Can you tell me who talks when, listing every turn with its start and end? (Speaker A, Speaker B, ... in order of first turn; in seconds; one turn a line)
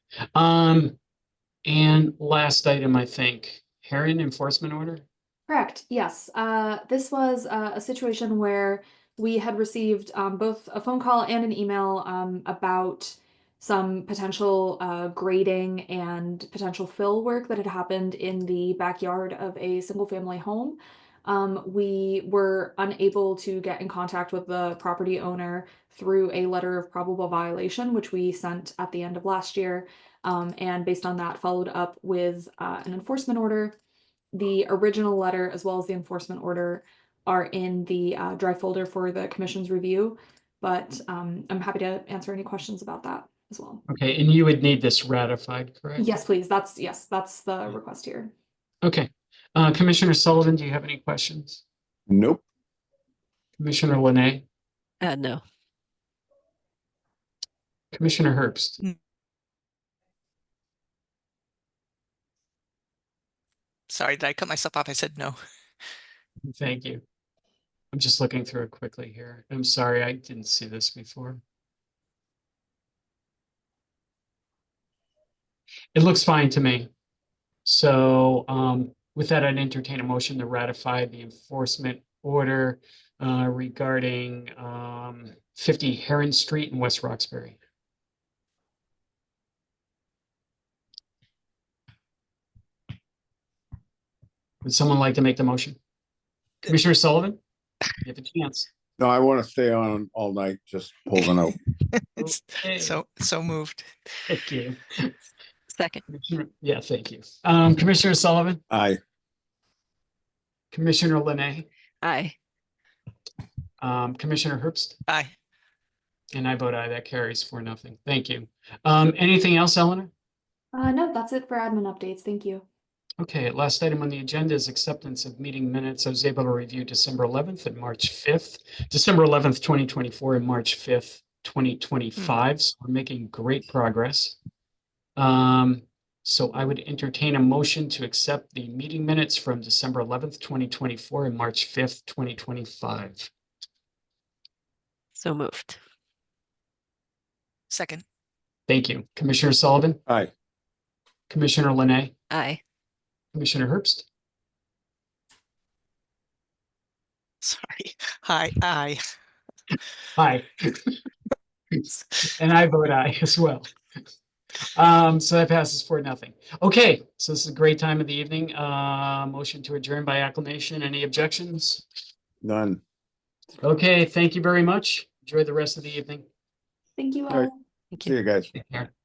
Speaker A: 0.3-0.9
Speaker A: 1.6-5.0
Speaker B: 5.5-33.8
Speaker B: 34.3-43.8
Speaker A: 43.9-46.2
Speaker B: 46.0-48.3
Speaker A: 48.8-51.6
Speaker C: 52.1-52.4
Speaker A: 53.6-54.4
Speaker D: 55.0-55.4
Speaker A: 57.9-58.8
Speaker E: 63.9-65.4
Speaker A: 66.5-67.0
Speaker A: 67.9-71.4
Speaker A: 75.9-76.9
Speaker A: 77.6-87.6
Speaker A: 94.6-95.8
Speaker A: 96.6-97.4
Speaker A: 98.0-98.7
Speaker C: 99.0-101.6
Speaker E: 102.2-103.8
Speaker A: 102.2-103.0
Speaker A: 104.3-105.1
Speaker D: 105.7-106.0
Speaker A: 106.1-108.6
Speaker C: 108.7-109.0
Speaker A: 110.7-111.7
Speaker D: 112.0-112.3
Speaker A: 113.8-115.0
Speaker E: 115.1-115.3
Speaker A: 116.3-120.1
Speaker B: 120.7-122.6
Speaker A: 123.2-134.3
Speaker A: 135.2-143.3
Speaker D: 145.2-145.8
Speaker E: 147.7-148.0
Speaker A: 148.7-150.0
Speaker A: 151.3-152.1
Speaker D: 152.3-152.6
Speaker A: 153.3-154.1
Speaker E: 157.4-159.0
Speaker A: 160.2-160.8
Speaker A: 162.2-163.7
Speaker A: 164.7-171.8
Speaker C: 172.4-172.8
Speaker A: 173.6-176.3
Speaker B: 177.0-177.6
Speaker C: 177.3-178.5
Speaker A: 178.5-178.9